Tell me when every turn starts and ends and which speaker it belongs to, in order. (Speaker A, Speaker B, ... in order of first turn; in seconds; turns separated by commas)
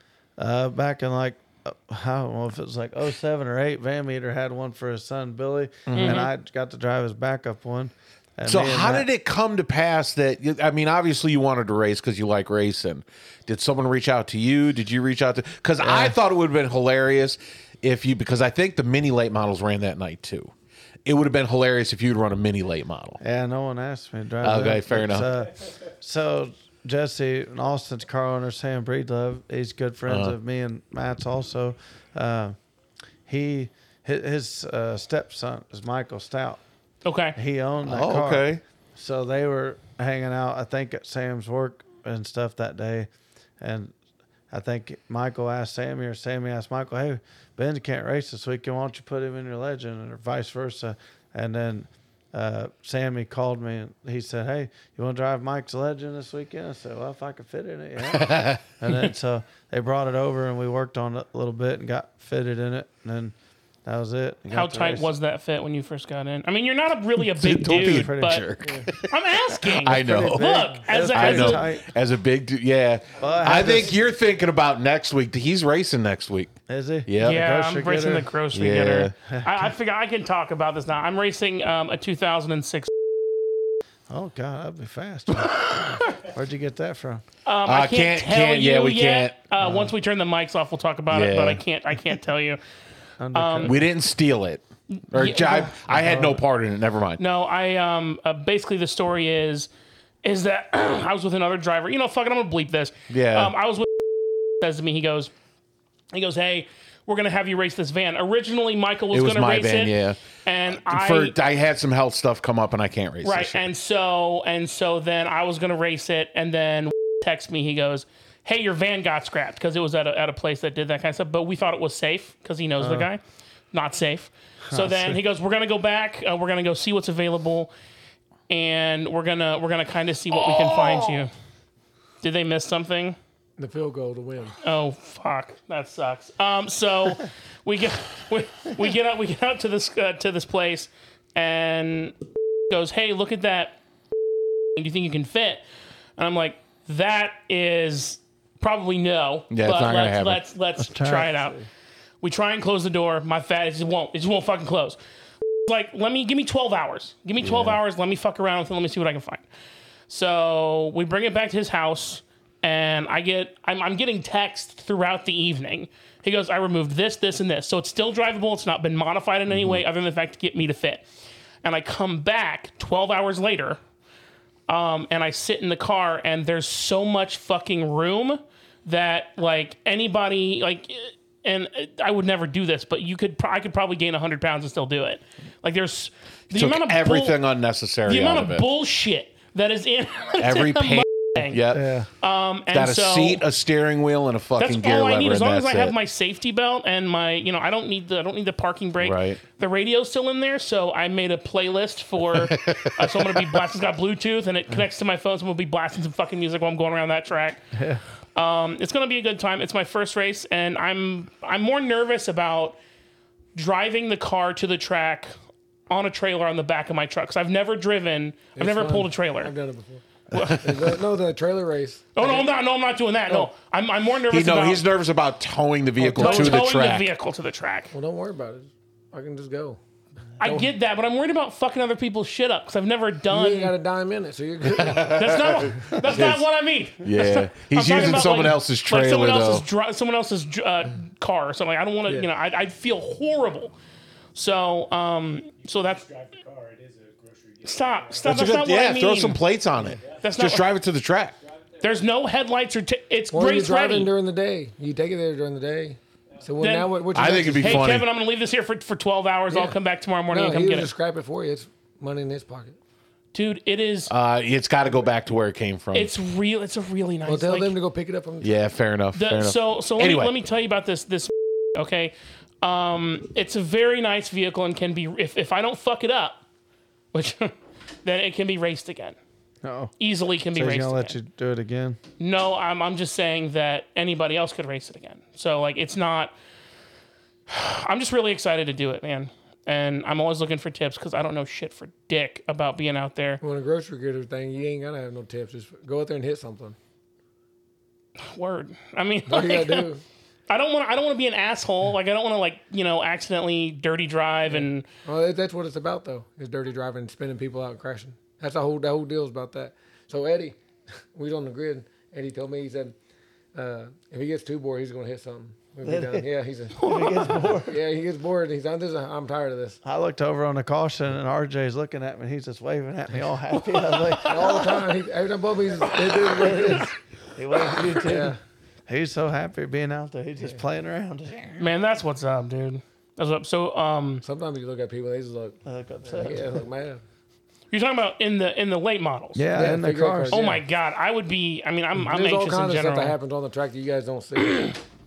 Speaker A: 0.4-9.1, Speaker B: 5.9-6.3, Speaker C: 6.0-6.3, Speaker B: 8.4-20.5, Speaker A: 15.8-16.1, Speaker B: 21.1-23.2, Speaker A: 23.2-32.6, Speaker B: 24.4-25.3, Speaker B: 30.1-30.4, Speaker A: 33.3-36.6, Speaker C: 37.0-37.4, Speaker A: 37.4-43.1, Speaker B: 37.8-38.6, Speaker A: 43.6-43.9, Speaker A: 44.5-63.3, Speaker B: 58.1-58.6, Speaker A: 63.9-65.1, Speaker C: 64.5-71.7, Speaker B: 67.4-70.5, Speaker A: 67.4-68.5, Speaker A: 69.8-71.9, Speaker B: 71.1-76.5, Speaker A: 73.2-74.0, Speaker A: 76.7-78.3, Speaker B: 77.1-77.5, Speaker C: 77.2-82.9, Speaker B: 78.5-79.1, Speaker A: 79.3-79.7, Speaker A: 84.1-87.2, Speaker C: 87.5-92.6, Speaker B: 87.7-89.6, Speaker A: 89.6-89.9, Speaker B: 91.1-91.6, Speaker A: 93.2-93.8, Speaker C: 93.3-93.8, Speaker B: 93.6-97.2, Speaker C: 94.9-95.8, Speaker A: 95.9-96.4, Speaker C: 97.2-99.7, Speaker C: 100.2-105.3, Speaker B: 103.1-103.5, Speaker C: 106.1-111.4, Speaker B: 109.1-110.2, Speaker B: 110.9-113.7, Speaker C: 113.2-123.2, Speaker A: 122.8-123.1, Speaker C: 123.7-127.7, Speaker A: 124.7-125.2, Speaker C: 128.5-131.3, Speaker C: 132.2-133.2, Speaker D: 133.6-134.6, Speaker C: 134.6-142.2, Speaker C: 142.7-143.8, Speaker C: 144.8-145.6, Speaker C: 146.2-151.6, Speaker B: 149.5-150.4, Speaker A: 150.8-151.7, Speaker C: 152.2-155.0, Speaker C: 155.7-159.4, Speaker B: 157.4-157.8, Speaker C: 160.1-171.1, Speaker B: 169.5-169.8, Speaker C: 171.6-173.8, Speaker C: 174.7-187.4, Speaker B: 186.5-188.7, Speaker C: 188.1-191.6, Speaker B: 190.4-192.0, Speaker A: 191.8-192.0, Speaker D: 191.8-192.0, Speaker C: 192.2-193.4, Speaker B: 192.7-195.9, Speaker C: 194.6-207.7, Speaker B: 199.0-199.4, Speaker B: 202.3-203.6, Speaker A: 207.8-208.0, Speaker C: 208.3-212.8, Speaker C: 213.6-215.3, Speaker C: 215.9-219.5, Speaker D: 218.6-222.5, Speaker C: 220.3-220.8, Speaker C: 222.2-224.9, Speaker B: 224.3-227.1, Speaker D: 226.0-226.6, Speaker C: 226.2-227.9, Speaker D: 227.9-229.8, Speaker C: 230.4-233.8, Speaker D: 233.3-235.5, Speaker B: 234.7-236.4, Speaker C: 234.9-243.8, Speaker B: 237.0-239.7, Speaker C: 244.3-246.0, Speaker E: 245.6-248.7, Speaker C: 247.7-249.4, Speaker B: 248.2-251.4, Speaker E: 249.9-250.6, Speaker C: 250.2-250.7, Speaker E: 251.4-252.0, Speaker C: 251.8-254.1, Speaker D: 253.3-258.0, Speaker C: 256.6-260.9, Speaker B: 257.1-258.1, Speaker D: 260.3-262.8, Speaker C: 263.3-264.1, Speaker B: 264.1-266.1, Speaker C: 265.9-267.8, Speaker D: 267.2-268.5, Speaker B: 268.4-270.3, Speaker C: 269.1-276.4, Speaker C: 277.1-279.2, Speaker A: 279.6-279.9, Speaker C: 280.0-281.2, Speaker A: 280.5-282.0, Speaker C: 282.2-286.3, Speaker C: 287.5-293.4, Speaker D: 293.4-296.8, Speaker C: 298.2-299.9, Speaker D: 299.3-300.0, Speaker C: 300.5-304.9, Speaker D: 304.5-310.6, Speaker D: 311.1-312.9, Speaker D: 313.5-316.8, Speaker A: 315.9-317.8, Speaker D: 317.5-319.8, Speaker A: 319.8-324.9, Speaker C: 323.5-324.7, Speaker D: 324.2-326.9, Speaker C: 326.3-326.8, Speaker A: 326.3-328.4, Speaker D: 328.0-328.4, Speaker A: 328.9-331.7, Speaker C: 331.6-334.2, Speaker D: 334.2-337.0, Speaker A: 335.6-336.6, Speaker C: 337.7-339.5, Speaker A: 339.4-340.5, Speaker D: 339.5-340.6, Speaker C: 340.3-343.1, Speaker D: 341.9-344.8, Speaker C: 344.4-344.7